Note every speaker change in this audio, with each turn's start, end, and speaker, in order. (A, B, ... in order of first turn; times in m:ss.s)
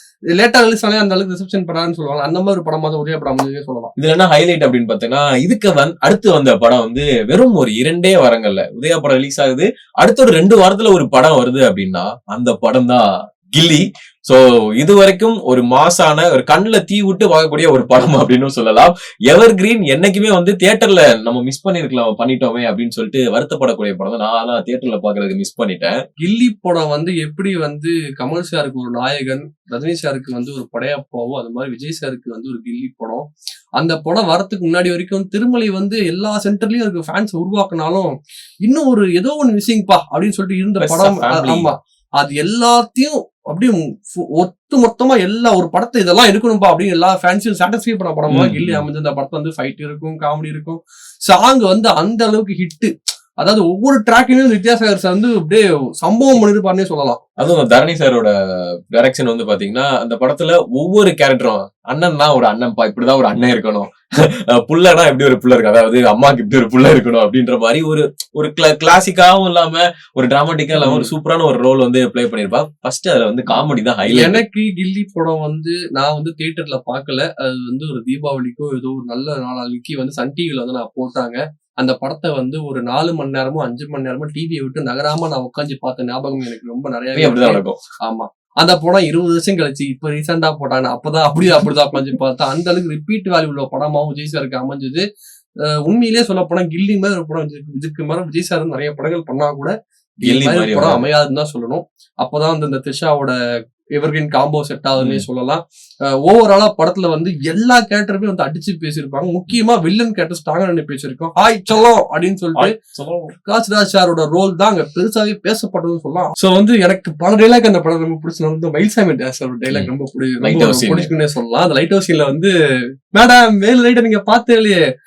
0:00.3-0:03.9 A
0:04.0-0:26.0 B
0:26.2-0:33.3 A
0:33.8-0:38.1 A
0:38.6-0:57.2 A
0:40.8-0:41.7 B
0:48.3-0:48.8 B
0:57.4-1:14.4 B
1:10.8-1:11.1 A
1:13.6-1:35.0 A
1:27.2-1:27.8 B
1:35.6-1:39.7 A
1:40.2-1:41.0 B
1:40.2-1:43.3 A
1:44.0-1:52.7 A
1:45.0-1:45.2 B
1:52.6-1:53.3 B
1:53.4-2:02.5 A
2:00.4-2:01.1 B
2:03.1-2:04.8 A